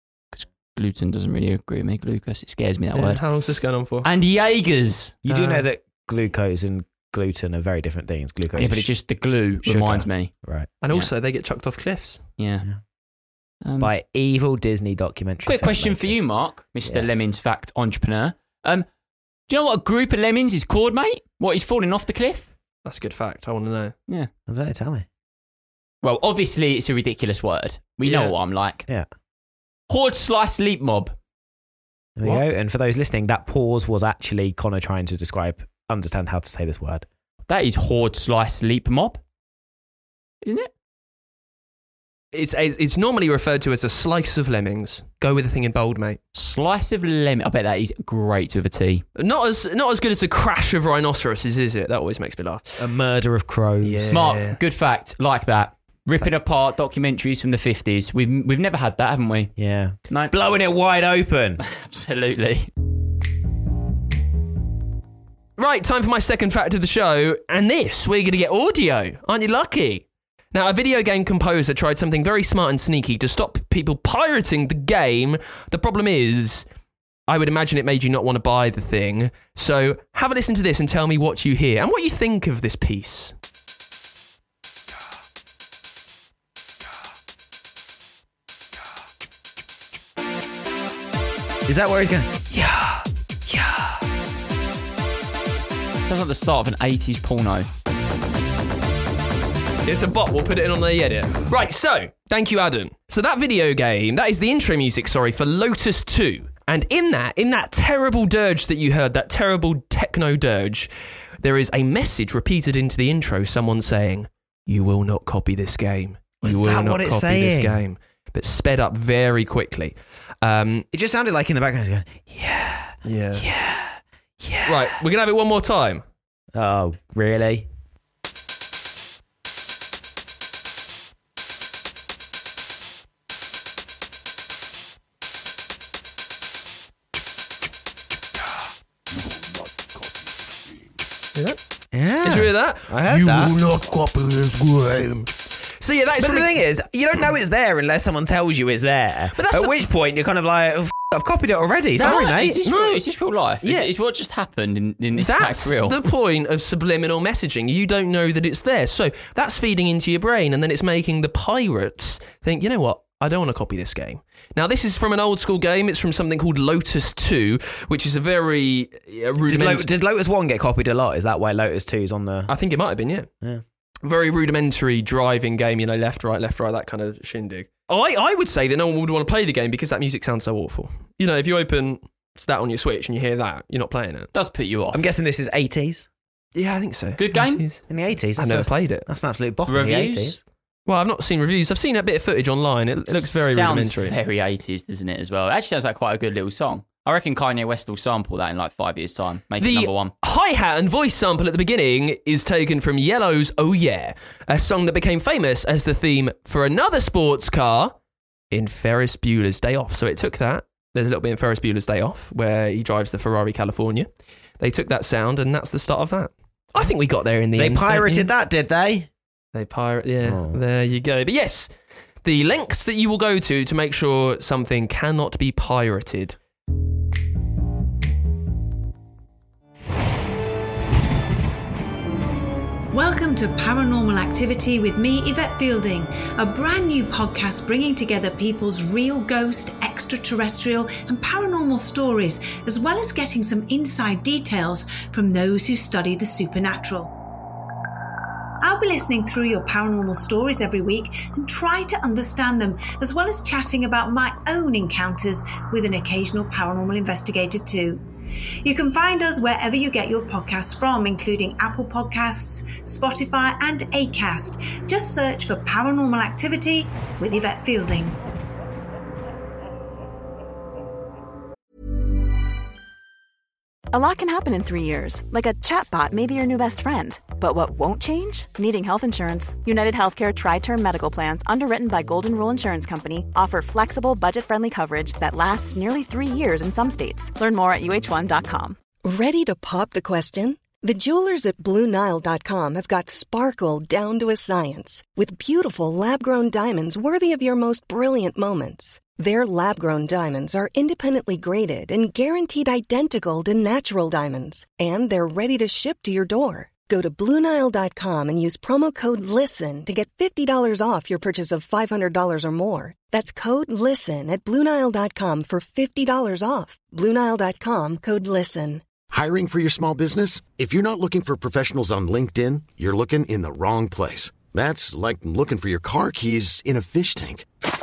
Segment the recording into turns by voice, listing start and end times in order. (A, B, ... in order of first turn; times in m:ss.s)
0:00.3-0:03.2 A
0:03.0-0:04.1 B
0:04.0-0:05.2 A
0:05.2-0:08.9 C
0:05.3-0:05.6 B
0:08.6-0:10.3 A
0:09.6-0:10.7 C
0:10.8-0:12.2 B
0:12.4-0:12.7 A
0:13.6-0:13.9 A
0:13.8-0:16.3 C
0:15.4-0:18.9 A
0:16.8-0:17.2 C
0:19.5-0:22.5 A
0:22.8-0:24.0 B
0:24.5-0:25.1 C
0:26.0-0:28.8 A
0:28.0-0:28.3 B
0:29.9-0:31.2 A
0:32.2-0:37.1 C
0:37.5-0:39.2 A
0:40.4-0:40.7 A
0:42.3-0:46.2 B
0:46.4-0:49.0 A
0:49.2-0:52.8 B
0:52.8-0:54.2 C
0:53.8-0:54.6 B
0:54.1-0:59.5 A
0:59.6-1:01.6 C
1:01.6-1:02.7 A
1:05.6-1:16.7 B
1:17.3-1:23.3 B
1:31.7-1:34.0 C
1:36.0-1:37.7 A
1:39.8-1:50.9 B
1:51.4-2:00.9 B
1:56.4-1:57.8 C
2:00.9-2:05.0 C
2:03.0-2:03.5 B
2:04.7-2:06.0 B
2:06.5-2:07.7 C
2:21.9-2:23.6 C
2:22.2-2:26.6 B
2:26.2-2:32.6 C
2:29.4-2:29.8 B
2:32.0-2:33.0 B
2:32.0-2:36.0 A
2:33.6-2:33.9 B
2:35.2-2:49.9 B
2:49.5-2:52.5 C
2:52.5-2:53.3 B
2:54.0-3:04.3 B
3:04.3-3:05.0 A
3:04.9-3:06.1 C
3:06.6-3:09.1 B
3:07.2-3:07.6 A
3:07.9-3:10.4 C
3:09.7-3:10.4 A
3:10.9-3:14.2 B
3:13.1-3:20.1 A
3:19.6-3:28.0 B
3:28.5-3:34.1 B
3:34.6-3:38.3 B
3:37.6-3:39.1 C
3:39.5-3:41.7 B
3:40.2-3:40.6 C
3:42.2-3:46.4 B
3:52.9-4:07.1 D
4:08.6-4:18.0 D
4:18.6-4:28.2 D
4:33.9-4:48.8 E
4:49.0-5:18.8 F
5:19.1-5:27.5 G